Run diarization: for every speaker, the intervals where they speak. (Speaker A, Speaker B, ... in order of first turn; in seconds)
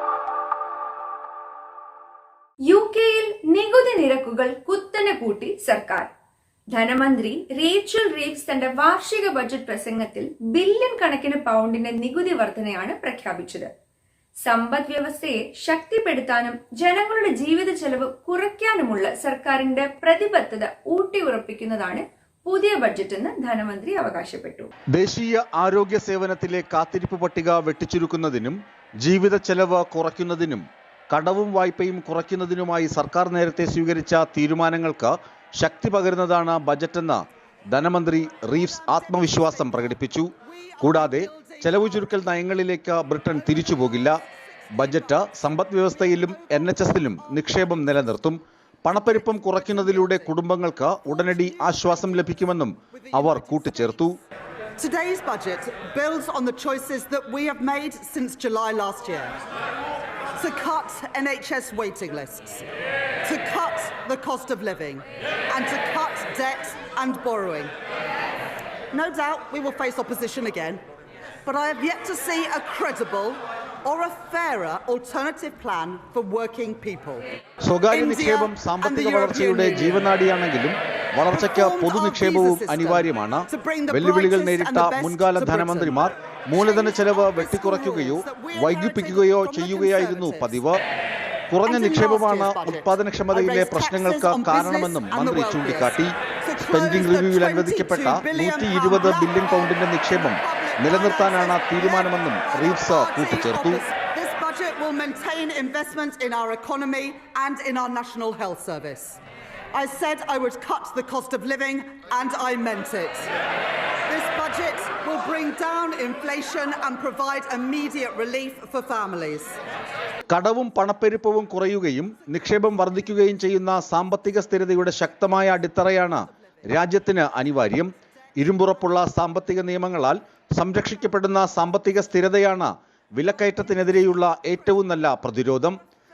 Speaker A: 2.7-6.1, 6.7-13.7, 14.5-24.7
Speaker B: 25.0-37.2, 37.7-40.3, 40.8-44.2, 44.7-54.2, 77.6-90.8, 91.5-103.8, 120.3-135.8
Speaker C: 38.5-42.3, 43.4-48.1, 49.1-50.4, 51.0-54.2, 54.8-59.4, 60.4-62.7, 63.2-67.7, 68.9-70.8, 71.5-77.2, 77.9-80.1, 81.3-86.0, 86.5-90.8, 91.7-109.2, 109.7-113.3, 114.1-119.6